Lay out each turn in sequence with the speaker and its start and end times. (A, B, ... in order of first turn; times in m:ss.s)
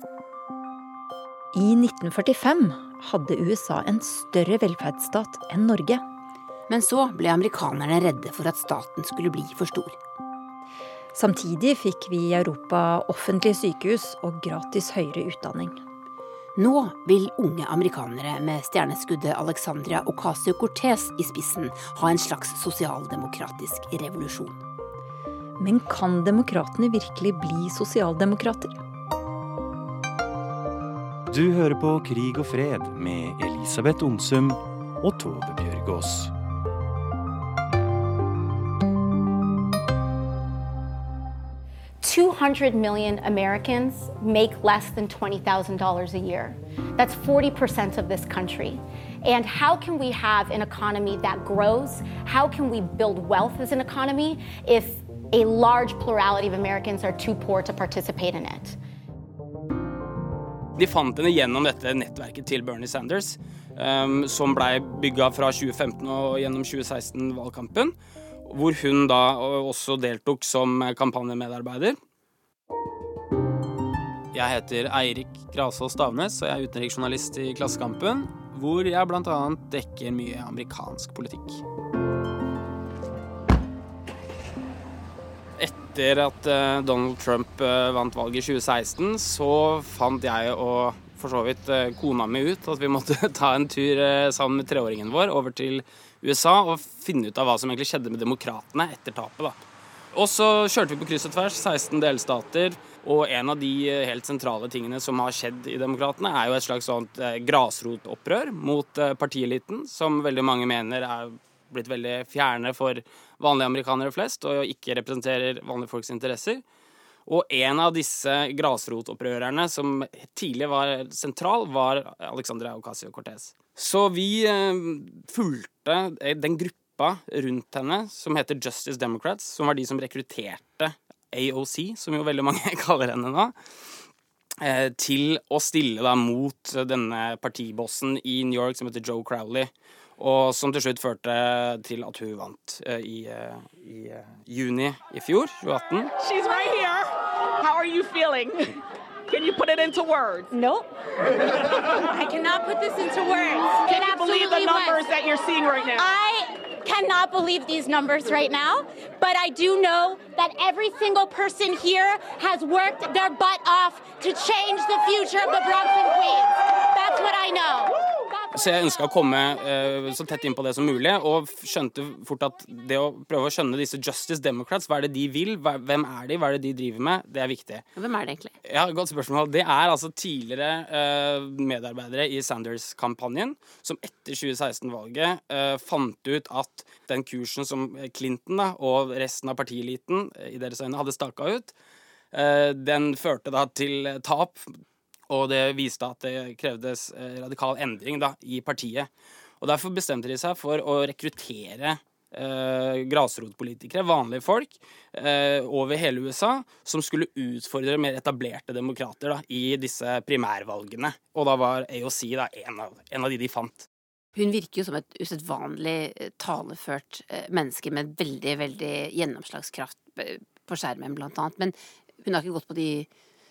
0:01.5-0:06.0 A
0:06.7-0:10.0 B
0:11.2-0:15.8 A
0:16.6-0:24.6 B
0:25.6-0:28.8 A
0:31.3-0:36.3 C
0:42.0-0:58.8 D
1:00.8-1:07.9 E
1:08.5-1:12.0 E
1:14.3-1:21.6 E
1:25.6-1:39.6 E
1:40.1-1:56.6 E
1:57.3-2:13.5 E
2:14.6-2:26.1 E
2:26.2-2:30.5 F
2:30.5-2:35.1 D
2:33.7-2:36.1 F
2:36.0-2:48.0 D
2:48.5-2:57.8 E
2:58.0-2:58.5 B
2:58.6-3:11.7 E
3:12.3-3:19.1 E
3:19.6-3:33.9 E
3:34.4-3:43.1 B